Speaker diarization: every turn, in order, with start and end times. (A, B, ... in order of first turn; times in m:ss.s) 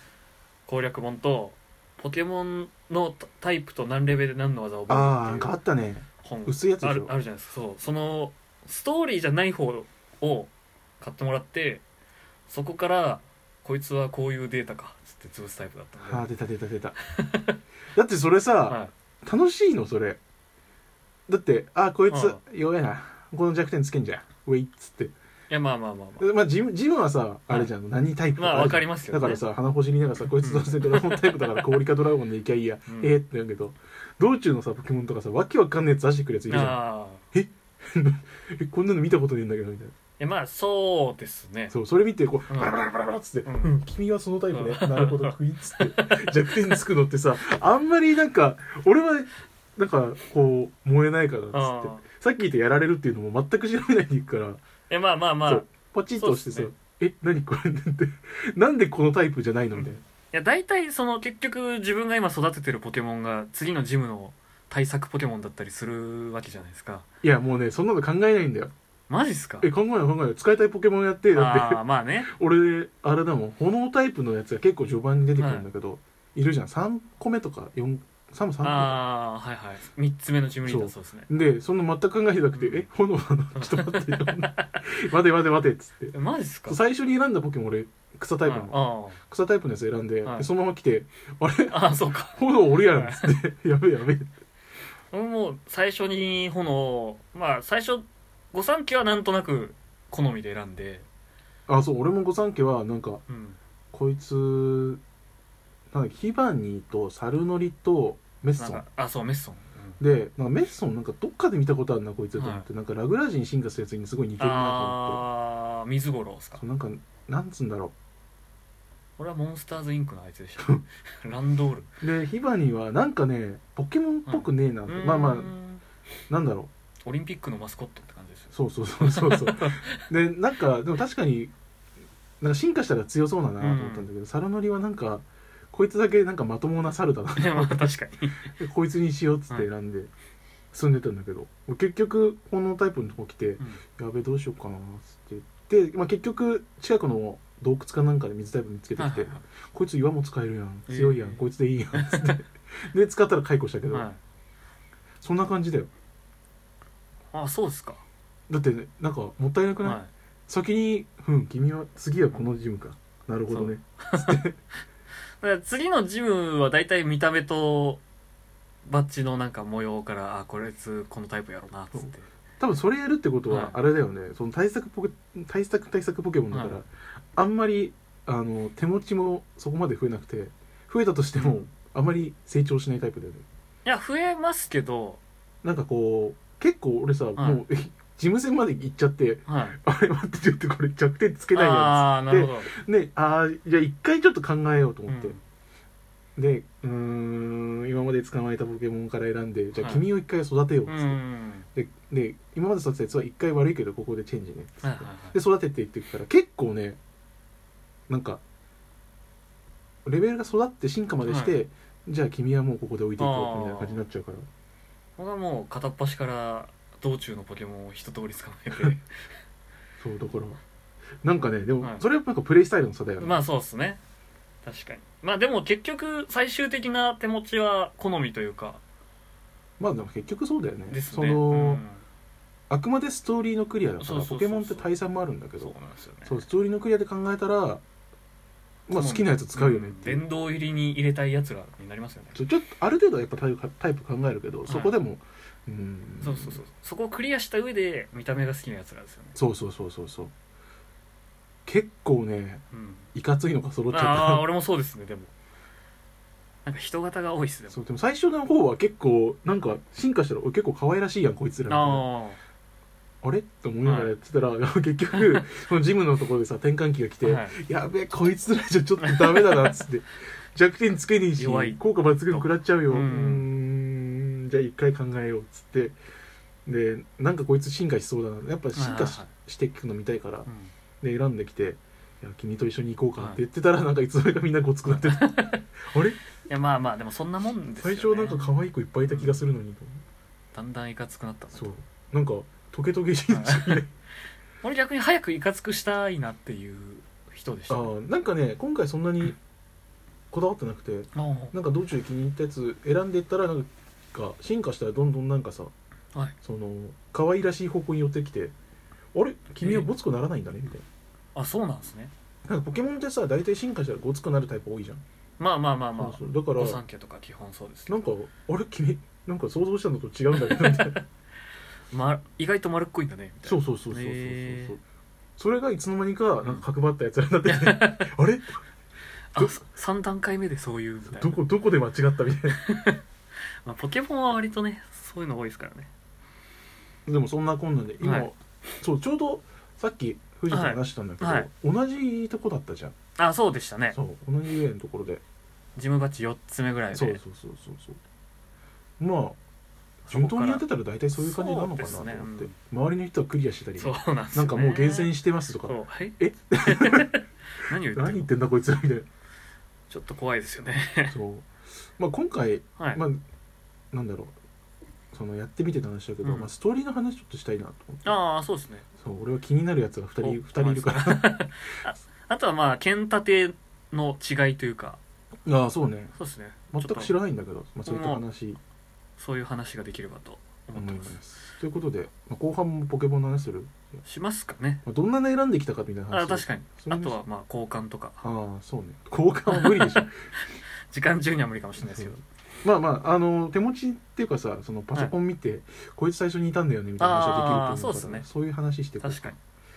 0:00.6-0:05.6 A
0:04.9-0:07.1 B
0:06.2-0:11.8 A
0:12.5-0:16.3 A
0:16.0-0:17.0 B
0:17.2-0:17.6 A
0:17.9-0:20.2 B
0:18.7-0:18.9 A
0:21.3-0:25.1 B
0:22.1-0:22.4 A
0:25.5-0:26.3 A
0:26.2-0:36.8 B
0:28.4-0:29.4 A
0:30.4-0:31.7 A
0:32.9-0:33.2 A
0:36.5-0:37.2 A
0:37.3-0:39.9 B
0:40.2-0:41.7 A
0:41.7-0:54.6 B
0:42.5-0:42.8 A
0:43.4-0:43.8 A
0:44.5-0:46.2 A
0:51.5-0:52.0 A
0:54.9-0:56.7 A
0:55.4-1:00.0 B
0:59.8-1:07.0 A
1:07.2-1:08.7 B
1:09.1-1:09.7 A
1:09.6-1:19.0 B
1:11.3-1:12.3 A
1:15.3-1:15.7 A
1:18.6-1:21.3 A
1:20.6-1:26.1 B
1:22.5-1:22.9 A
1:23.6-1:24.8 A
1:26.1-1:26.8 A
1:26.7-1:28.8 B
1:28.4-1:29.2 A
1:29.3-1:31.8 B
1:31.7-1:33.3 A
1:32.3-1:34.3 B
1:35.1-1:41.0 A
1:41.7-1:43.2 B
1:43.3-1:43.6 A
1:43.9-1:45.0 B
1:45.9-1:48.8 B
1:48.6-1:50.0 A
1:50.0-1:55.2 B
1:52.4-1:52.6 A
1:54.4-1:56.6 A
1:56.6-1:57.9 B
1:59.2-2:01.9 A
2:02.0-2:05.5 B
2:04.3-2:05.8 A
2:06.3-2:06.7 B
2:07.0-2:10.0 A
2:08.5-2:11.5 B
2:12.4-2:17.9 B
2:13.6-2:14.1 A
2:17.4-2:18.5 A
2:18.6-2:20.1 B
2:20.7-2:34.1 B
2:29.0-2:29.4 A
2:30.9-2:31.4 A
2:32.0-2:32.4 A
2:33.9-2:34.2 A
2:35.2-2:35.9 B
2:37.3-2:38.0 A
2:38.5-2:44.5 B
2:39.8-2:40.1 A
2:43.5-2:44.4 A
2:45.4-2:48.0 A
2:48.8-2:52.3 A
2:51.9-3:03.4 B
2:53.5-2:53.8 A
2:56.5-2:56.8 A
3:01.4-3:01.7 A
3:03.8-3:05.2 A
3:05.6-3:15.4 B
3:07.4-3:07.6 A
3:09.5-3:09.8 A
3:11.5-3:12.7 A
3:15.1-3:15.4 A
3:16.4-3:21.2 B
3:19.7-3:20.0 A
3:20.9-3:21.7 A
3:21.7-3:27.0 B
3:24.8-3:25.4 A
3:28.1-3:28.4 B
3:30.0-3:34.4 B
3:31.2-3:31.6 A
3:33.2-3:34.0 A
3:35.2-3:39.2 A
3:40.0-3:40.6 B
3:41.2-3:43.4 B
3:43.2-3:44.0 A
3:44.6-3:48.8 A
3:49.8-3:51.8 B
3:50.9-3:52.0 A
3:52.7-3:55.7 B
3:54.0-3:54.9 A
3:55.6-3:56.4 A
3:56.2-3:57.8 B
3:58.9-4:00.2 B
3:58.9-4:02.4 A
4:02.3-4:06.6 B
4:04.7-4:05.0 A
4:06.2-4:09.4 A
4:09.3-4:10.3 B
4:11.6-4:12.6 B
4:12.7-4:13.1 A
4:13.1-4:14.4 B
4:13.9-4:15.3 A
4:16.6-4:17.8 A
4:17.7-4:22.1 B
4:21.7-4:22.4 A
4:23.2-4:36.0 B
4:23.8-4:24.1 A
4:25.2-4:25.4 A
4:27.2-4:27.6 A
4:29.0-4:29.8 A
4:31.4-4:33.5 A
4:36.6-4:40.5 B
4:38.7-4:39.3 A
4:40.4-4:40.7 A
4:41.0-4:46.2 B
4:44.8-4:45.6 A
4:46.5-4:48.5 A
4:47.8-4:50.0 B
4:49.1-4:49.5 A
4:50.5-4:51.7 A
4:51.5-4:53.9 B
4:53.3-4:53.8 A
4:54.6-4:57.9 A
4:57.7-4:59.4 B
5:00.3-5:05.7 B
5:01.1-5:01.5 A
5:06.4-5:08.5 B
5:09.1-5:10.8 B
5:09.6-5:09.9 A
5:11.3-5:12.1 A
5:12.4-5:15.0 B
5:15.4-5:18.0 A
5:15.9-5:16.8 B
5:17.9-5:21.0 B
5:20.6-5:21.0 A
5:21.9-5:24.8 A
5:23.4-5:24.8 B
5:25.4-5:28.6 B
5:27.4-5:28.1 A
5:29.3-5:31.4 A
5:31.1-5:32.6 B
5:32.6-5:33.0 A
5:33.6-5:35.9 A
5:37.1-5:42.9 B
5:38.0-5:38.3 A
5:40.5-5:41.5 A
5:43.2-5:44.0 A
5:43.9-5:45.2 B
5:45.8-5:47.2 A
5:46.9-5:48.0 B
5:49.0-5:49.4 B
5:50.0-5:52.6 A
5:50.1-5:57.1 B
5:53.8-5:58.3 A
5:57.9-5:59.0 B
5:59.9-6:01.2 A
6:01.1-6:03.2 B
6:03.9-6:04.3 B
6:05.1-6:08.2 B
6:06.2-6:06.5 A
6:08.0-6:08.8 A
6:09.0-6:11.3 B
6:10.2-6:15.0 A
6:15.4-6:16.1 B
6:16.1-6:17.1 A
6:16.7-6:18.6 B
6:17.8-6:18.2 A
6:19.2-6:21.2 A
6:20.7-6:24.0 B
6:24.0-6:24.8 A
6:24.8-6:27.2 B
6:26.1-6:28.2 A
6:28.2-6:30.2 B
6:29.5-6:32.2 A
6:31.8-6:39.3 B
6:37.0-6:38.2 A
6:39.0-6:39.4 A